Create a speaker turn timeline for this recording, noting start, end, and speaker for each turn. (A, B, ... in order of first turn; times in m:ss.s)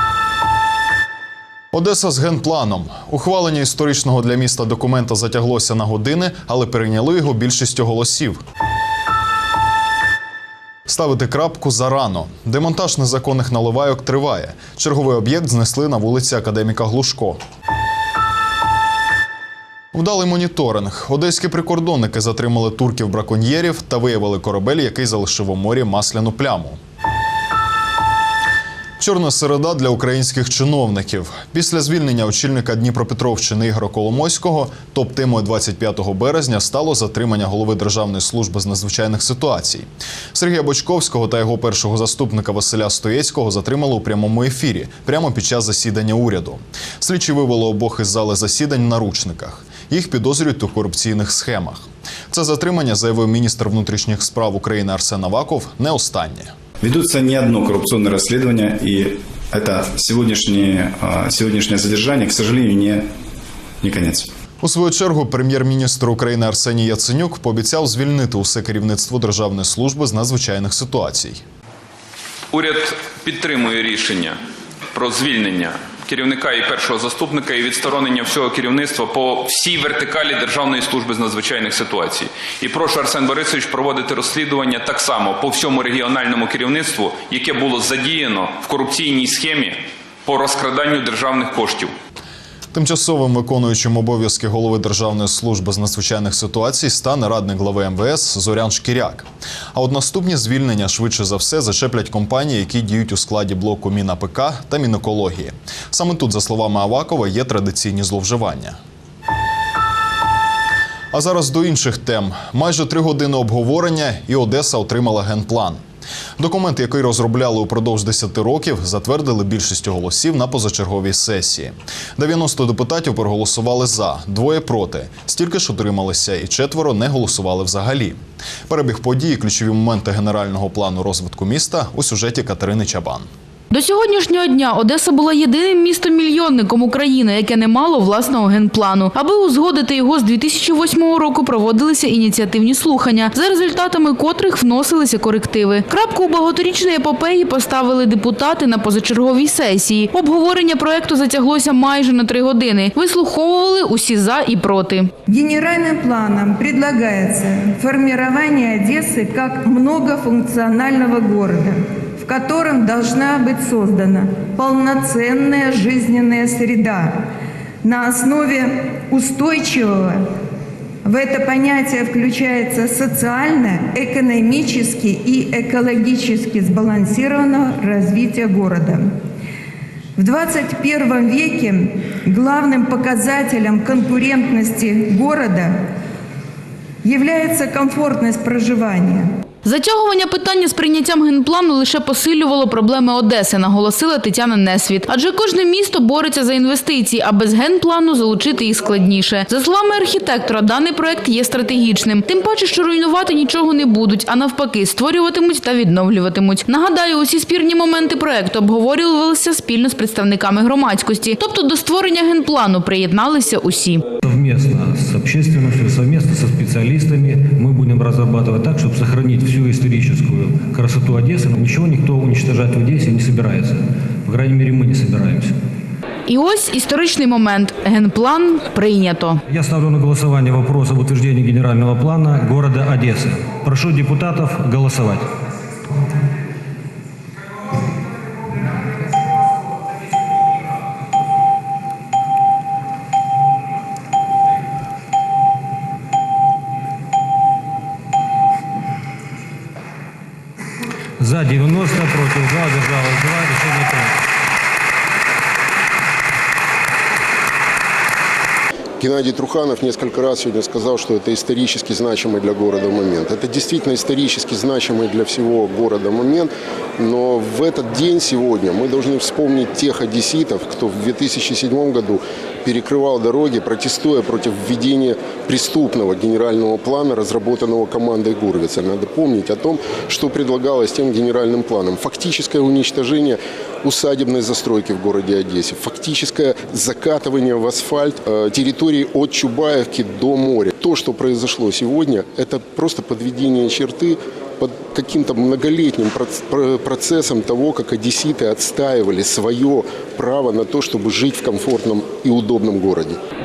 0:01.7-0:08.4 A
0:10.9-0:17.4 A
0:19.9-0:26.8 A
0:29.0-0:56.5 A
0:56.8-1:03.0 B
1:03.8-1:04.3 B
1:04.6-1:11.4 A
1:12.5-1:14.4 C
1:14.9-1:31.9 C
1:32.7-1:48.8 A
1:51.1-1:55.8 A
1:56.4-2:13.3 A
2:13.7-2:35.1 D
2:35.3-2:47.2 E
2:47.8-2:50.2 E
2:51.0-2:59.1 E
3:00.2-3:05.8 E
3:07.0-3:09.3 E
3:09.6-3:34.0 D
3:34.2-3:45.6 F
3:46.2-3:49.4 D
3:49.5-3:55.3 F
4:11.2-4:14.2 F
4:19.0-5:03.2 G